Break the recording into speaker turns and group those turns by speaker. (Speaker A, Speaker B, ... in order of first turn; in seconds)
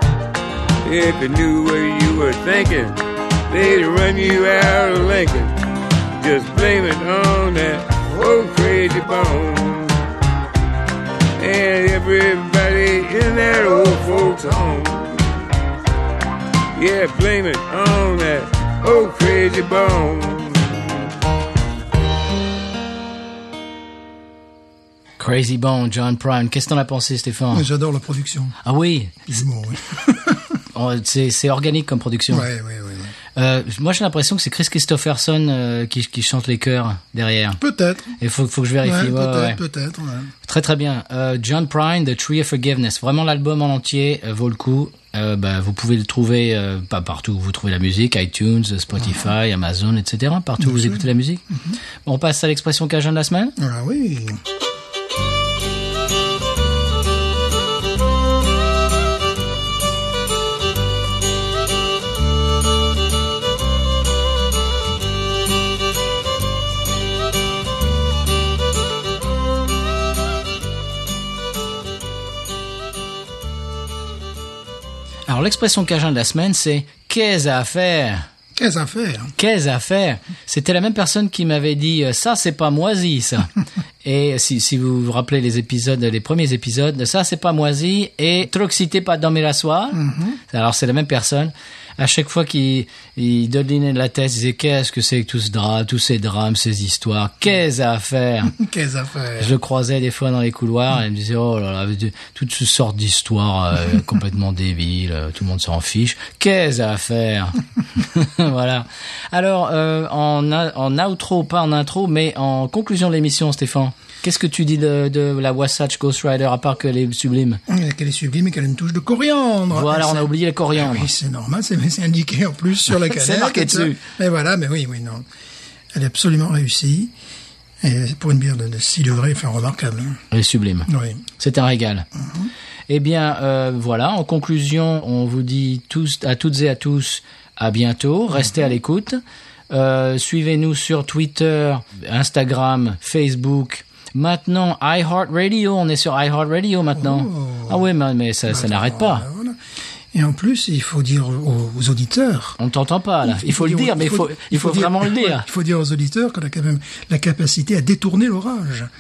Speaker A: 0.8-5.6, 6.2-10.1, 11.4-15.5, 16.8-21.2
Speaker B: 25.2-27.7, 28.6-29.3, 30.7-32.5, 33.4-37.6, 38.2-39.6, 40.4-51.5, 52.0-53.5, 75.3-78.2, 79.4-83.5, 84.0-98.6, 99.4-117.6, 119.7-121.1, 122.9-124.0, 130.3-132.1, 132.9-149.3, 152.6-155.5
Speaker C: 27.5-28.6, 29.3-30.6, 32.3-33.1, 37.6-38.2, 38.8-40.3, 50.6-51.8, 53.6-54.4, 78.6-79.3, 89.9-90.4, 98.5-99.5, 117.7-125.2, 125.9-127.1, 127.8-130.2, 130.9-131.2, 132.2-132.5, 146.9-147.8, 148.5-149.6, 150.1-152.6, 153.2-158.9